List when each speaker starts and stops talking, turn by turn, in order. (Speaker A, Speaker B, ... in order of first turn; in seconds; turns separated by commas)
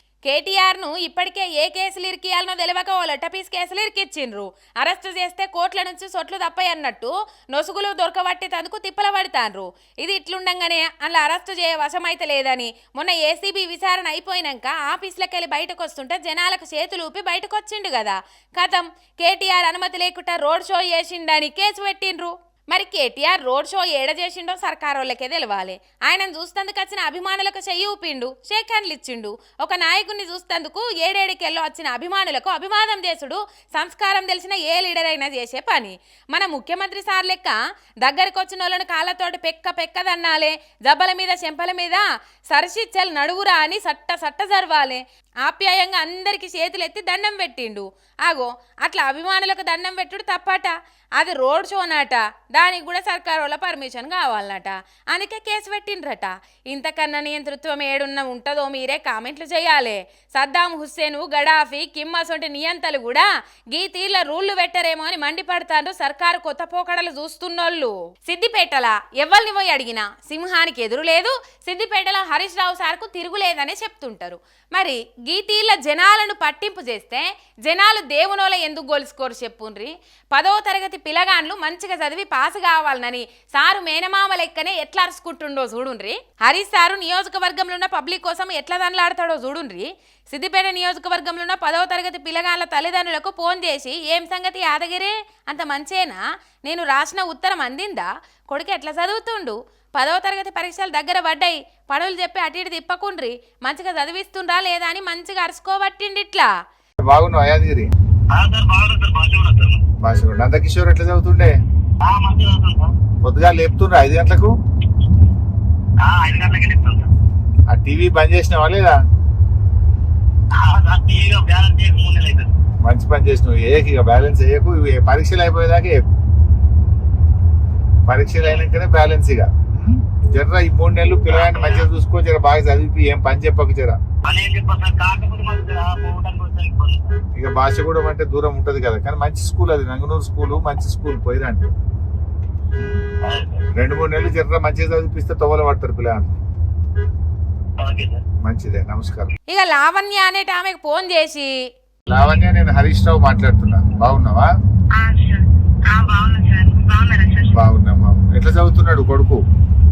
Speaker A: 0.2-106.5, Speaker B: 107.0-107.9, Speaker C: 108.3-109.8, Speaker B: 110.0-111.5, Speaker C: 112.0-112.9, Speaker B: 113.2-114.5, Speaker C: 116.0-117.1, Speaker B: 117.7-119.0, Speaker C: 120.6-122.5, Speaker B: 122.8-126.1, Speaker B: 128.1-134.0, Speaker C: 131.3-131.9, Speaker C: 134.2-137.2, Speaker B: 137.3-141.7, Speaker C: 143.2-143.7, Speaker B: 143.8-146.4, Speaker C: 147.8-148.2, Speaker B: 148.4-149.3, Speaker A: 149.5-151.5, Speaker B: 152.1-154.5, Speaker D: 155.0-157.6, Speaker B: 157.5-159.4